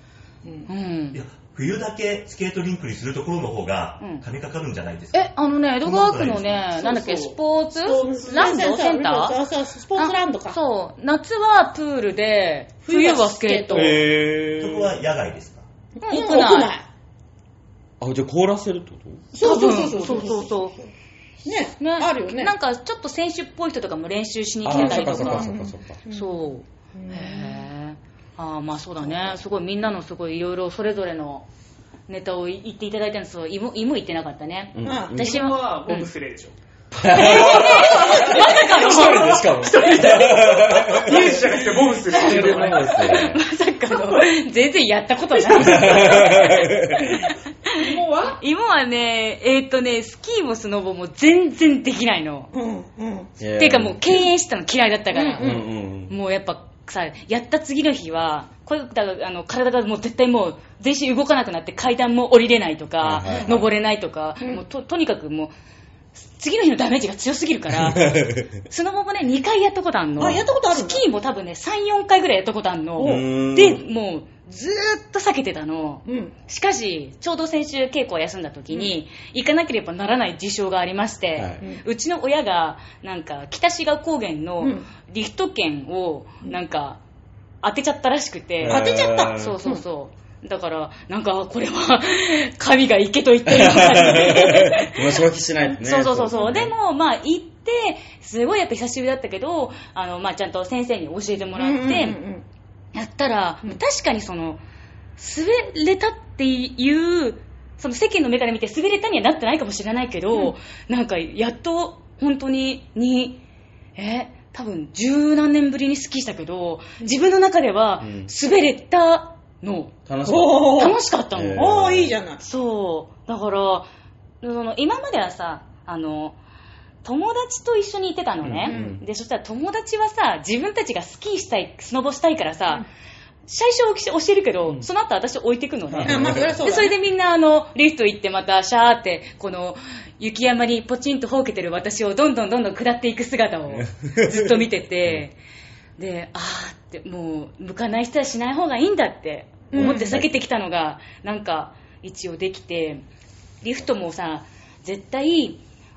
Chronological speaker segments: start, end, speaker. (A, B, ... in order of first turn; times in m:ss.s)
0:00.4-0:00.7 A
0:00.7-0:01.2 B
0:01.1-0:06.9 C
0:05.1-0:09.4 B
0:06.7-0:07.4 D
0:07.8-0:10.6 A
0:08.0-0:08.3 D
0:10.0-0:14.0 B
0:12.9-0:14.0 A
0:13.7-0:14.9 E
0:14.6-0:15.7 C
0:16.0-0:16.9 A
0:16.1-0:16.7 B
0:18.0-0:19.3 E
0:19.3-0:20.9 A
0:19.4-0:20.8 B
0:21.4-0:22.5 A
0:21.8-0:25.5 B
0:24.6-0:26.0 E
0:24.7-0:26.4 A
0:26.1-0:31.5 B
0:27.0-0:27.7 A
0:32.1-0:36.1 B
0:34.7-0:35.5 E
0:34.8-0:35.2 A
0:35.2-0:43.0 D
0:37.0-0:43.4 E
0:37.1-0:41.3 B
0:42.1-0:52.5 B
0:45.4-0:45.9 D
0:45.6-0:47.2 E
0:47.7-0:48.4 D
0:52.5-0:53.4 A
0:53.4-0:54.3 E
0:53.6-0:55.5 B
0:55.1-0:55.6 A
0:55.4-0:56.1 E
0:56.1-1:05.5 B
1:03.0-1:03.7 E
1:03.3-1:03.6 A
1:06.2-1:27.0 B
1:07.7-1:08.5 E
1:10.2-1:11.0 A
1:13.0-1:13.3 A
1:13.0-1:13.8 E
1:16.1-1:16.4 A
1:21.4-1:21.6 E
1:24.6-1:24.9 A
1:27.6-1:35.2 B
1:28.6-1:29.6 E
1:28.6-1:29.8 A
1:33.4-1:36.7 E
1:35.8-1:42.2 B
1:41.6-1:42.4 A
1:42.9-1:44.6 B
1:45.2-1:53.4 B
1:54.0-1:59.9 B
1:58.0-1:58.3 E
2:00.1-2:02.1 E
2:00.3-2:01.0 A
2:00.5-2:01.7 B
2:01.6-2:02.4 A
2:02.4-2:03.9 B
2:04.4-2:06.4 B
2:07.0-2:12.9 B
2:08.4-2:09.0 E
2:08.7-2:09.0 A
2:13.5-2:25.4 B
2:15.9-2:16.6 E
2:16.0-2:17.0 A
2:23.8-2:25.2 E
2:26.0-2:33.0 B
2:29.7-2:30.2 A
2:29.7-2:30.3 E
2:33.6-2:35.6 B